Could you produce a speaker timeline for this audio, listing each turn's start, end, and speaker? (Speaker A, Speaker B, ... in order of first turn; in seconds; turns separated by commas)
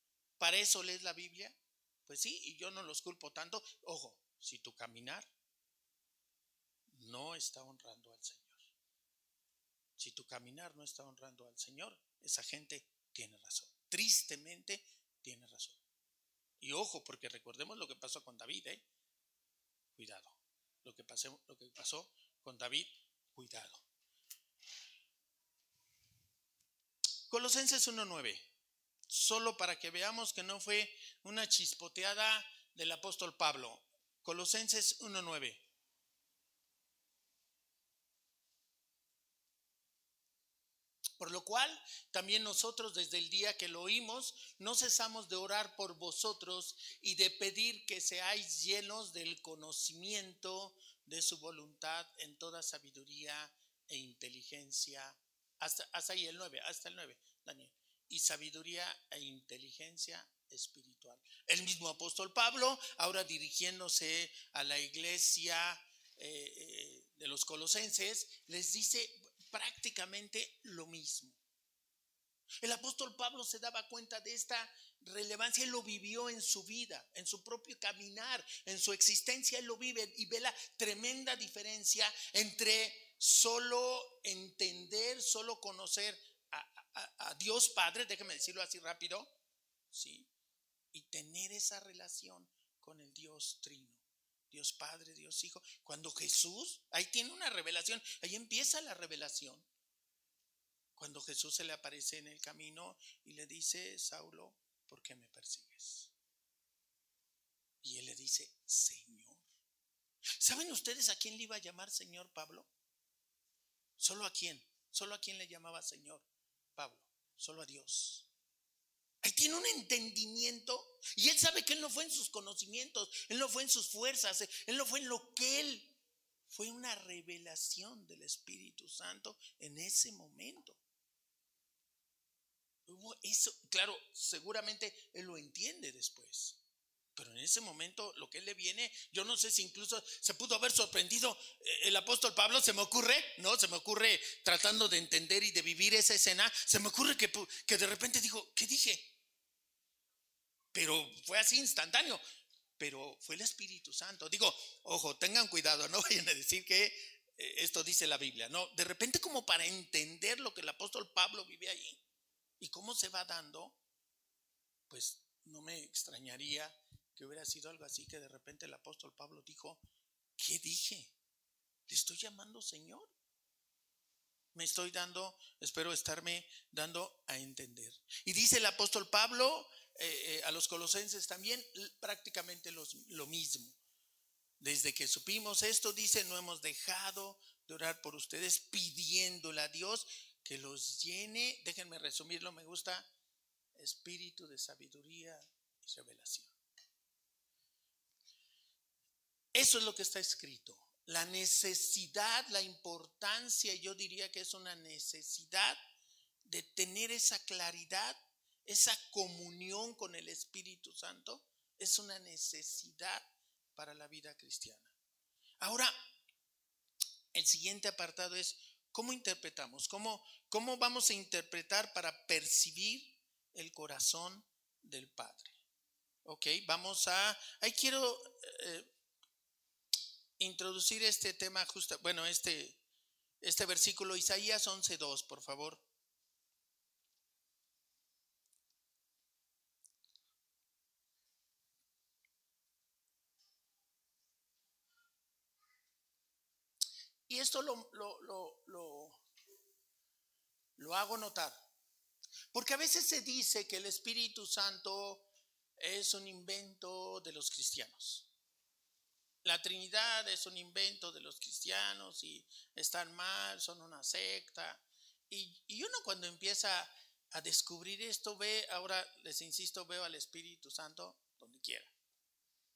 Speaker A: 0.4-5.3, Speaker A: 6.9-8.7, Speaker A: 10.0-15.8, Speaker A: 16.6-18.9, Speaker A: 20.0-23.8, Speaker A: 27.3-28.5, Speaker A: 29.1-35.6, Speaker A: 41.2-71.4, Speaker A: 72.6-89.3, Speaker A: 89.9-90.3, Speaker A: 90.9-99.7, Speaker A: 101.0-106.1, Speaker A: 107.8-109.5, Speaker A: 110.4-112.7, Speaker A: 114.0-118.3, Speaker A: 119.2-126.0, Speaker A: 126.5-130.8, Speaker A: 132.9-136.6, Speaker A: 137.2-149.1, Speaker A: 150.7-152.2, Speaker A: 152.8-162.0, Speaker A: 162.6-163.8, Speaker A: 164.9-169.8, Speaker A: 170.4-171.1, Speaker A: 171.9-173.1, Speaker A: 174.6-183.8, Speaker A: 184.6-193.1, Speaker A: 193.8-196.5, Speaker A: 199.5-205.8, Speaker A: 206.4-214.9, Speaker A: 215.6-215.9, Speaker A: 217.3-225.6, Speaker A: 226.2-228.9, Speaker A: 230.4-232.8, Speaker A: 233.4-235.8, Speaker A: 247.3-249.2, Speaker A: 250.8-251.6, Speaker A: 252.5-258.3, Speaker A: 259.4-271.9